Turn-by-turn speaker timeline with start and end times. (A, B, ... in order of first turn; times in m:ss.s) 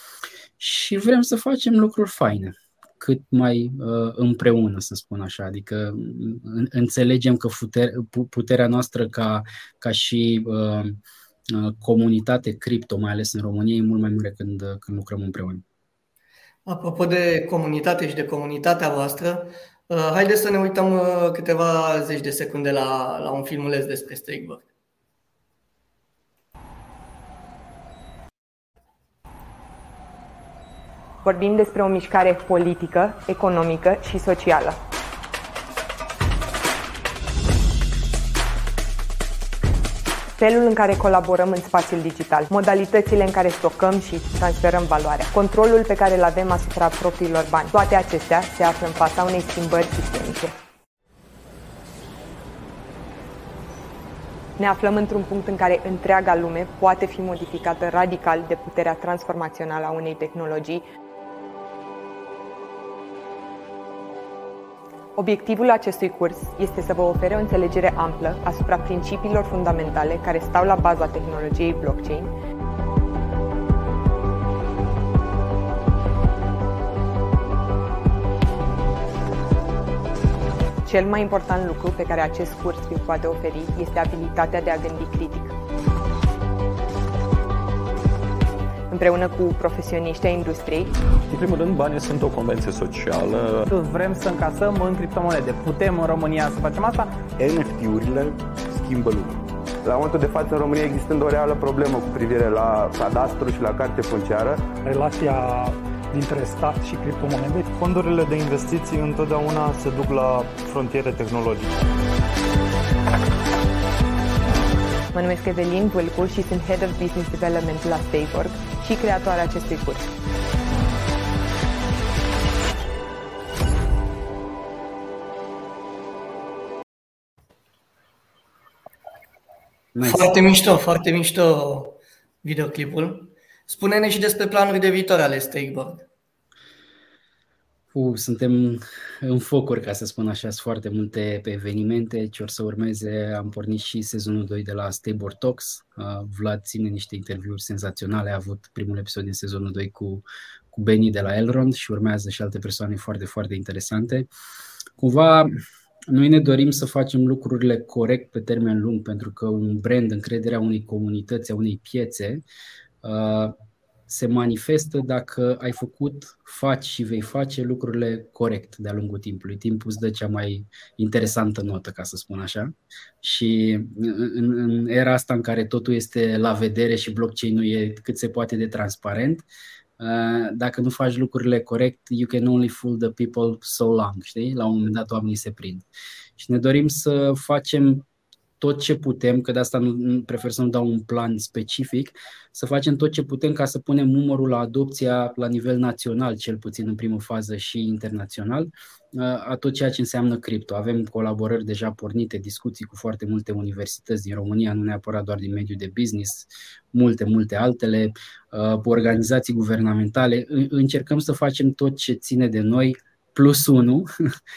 0:00.6-0:15.6 A
0:16.7-0:24.6 B
0:31.2-0:34.8 C
0:40.4-0:50.6 C
0:54.6-1:00.8 C
1:05.2-1:12.3 C
1:20.8-1:25.5 C
1:28.9-1:31.0 C
1:31.3-1:33.7 D
1:33.7-1:37.1 E
1:37.4-1:44.7 F
1:44.8-1:47.7 G
1:47.8-1:51.7 H
1:55.1-2:00.1 C
2:10.0-2:10.4 A
2:10.0-2:16.1 B
2:17.9-2:34.3 A
2:35.0-2:35.6 A
2:36.1-2:42.4 A
2:43.0-2:59.5 A
3:00.0-3:08.1 A
3:08.6-3:34.1 A